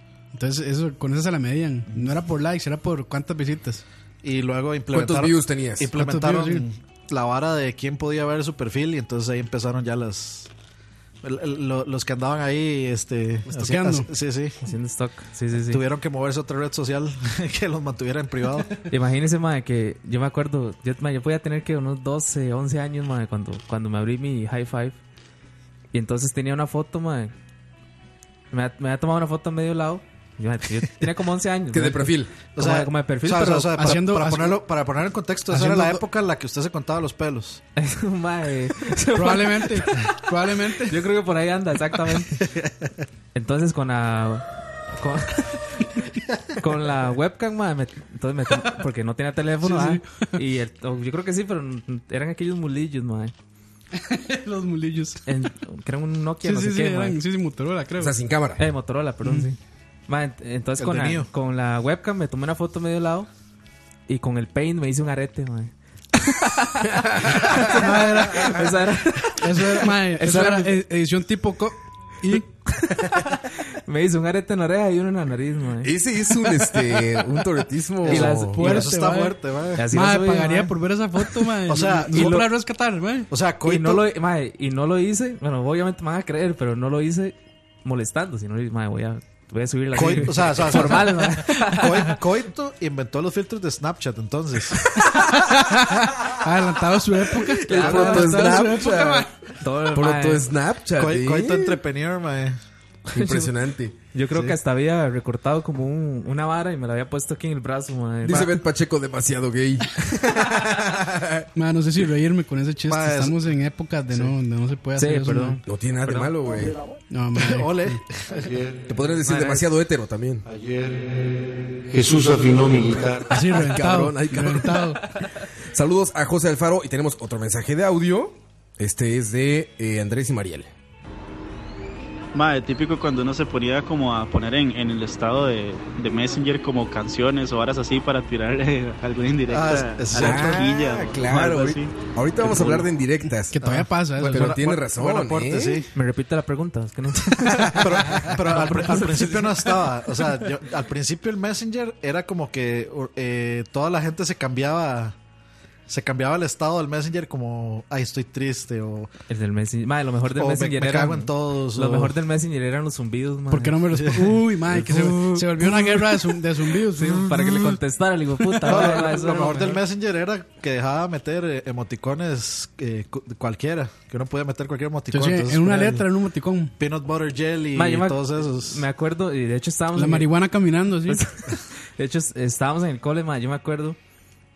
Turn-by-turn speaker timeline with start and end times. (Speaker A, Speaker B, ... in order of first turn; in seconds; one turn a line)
Speaker A: 0.3-3.8
Speaker B: 4.2-10.5
Speaker C: 4.9-5.9
Speaker A: 5.9-6.7
Speaker B: 11.2-14.6
Speaker A: 13.5-14.1
Speaker D: 14.6-15.8
Speaker B: 15.6-18.7
Speaker D: 18.9-25.0
Speaker D: 25.9-27.3
Speaker D: 28.5-33.9
Speaker C: 31.7-32.4
Speaker B: 32.5-37.6
Speaker A: 33.8-34.6
Speaker A: 35.5-36.0
Speaker D: 37.8-40.0
Speaker A: 39.1-41.0
Speaker D: 40.8-42.4
Speaker B: 42.4-42.7
Speaker D: 43.3-46.0
Speaker D: 46.6-53.3
Speaker A: 49.6-50.3
Speaker A: 53.9-55.2
Speaker D: 55.2-57.2
Speaker A: 56.4-58.1
Speaker C: 58.0-58.6
Speaker D: 58.6-63.3
Speaker B: 60.8-61.3
Speaker D: 64.1-70.8
Speaker C: 67.0-67.8
Speaker A: 67.7-68.7
Speaker A: 69.3-72.5
Speaker D: 73.0-75.9
Speaker C: 75.8-78.6
Speaker D: 78.0-78.9
Speaker B: 78.0-79.9
Speaker A: 78.5-83.3
Speaker D: 79.8-80.7
Speaker B: 81.7-82.5
Speaker D: 82.1-82.5
Speaker B: 83.3-84.0
Speaker D: 83.6-92.2
Speaker B: 89.9-94.9
Speaker A: 90.9-91.4
Speaker C: 95.0-95.4
Speaker A: 95.2-99.3
Speaker C: 97.6-99.3
Speaker D: 97.7-98.8
Speaker D: 99.6-100.5
Speaker C: 99.9-101.8
Speaker B: 101.0-102.6
Speaker C: 103.1-104.0
Speaker D: 103.2-103.5
Speaker D: 104.1-108.5
Speaker C: 108.2-111.5
Speaker A: 111.5-115.6
Speaker B: 112.9-113.4
Speaker D: 115.0-116.3
Speaker C: 115.7-116.8
Speaker A: 117.1-118.0
Speaker B: 117.3-118.3
Speaker E: 118.3-118.9
Speaker C: 118.9-120.4
Speaker D: 119.2-119.7
Speaker E: 120.5-123.3
Speaker C: 123.3-124.8
Speaker A: 123.3-125.0
Speaker C: 125.7-130.7
Speaker F: 132.3-141.9
Speaker B: 139.5-140.7
Speaker C: 140.1-143.6
Speaker B: 142.4-142.9
Speaker A: 143.5-144.6
Speaker B: 143.6-145.9
Speaker C: 144.2-145.8
Speaker D: 145.9-150.0
Speaker B: 147.5-155.2
Speaker B: 155.9-159.1
Speaker D: 159.3-163.8
Speaker B: 160.4-162.1
Speaker A: 163.5-167.7
Speaker B: 164.0-164.3
Speaker D: 166.9-169.8
Speaker B: 168.6-176.1
Speaker A: 175.1-176.8
Speaker B: 176.8-178.8
Speaker D: 177.8-180.3
Speaker A: 179.9-181.2
Speaker D: 181.1-184.0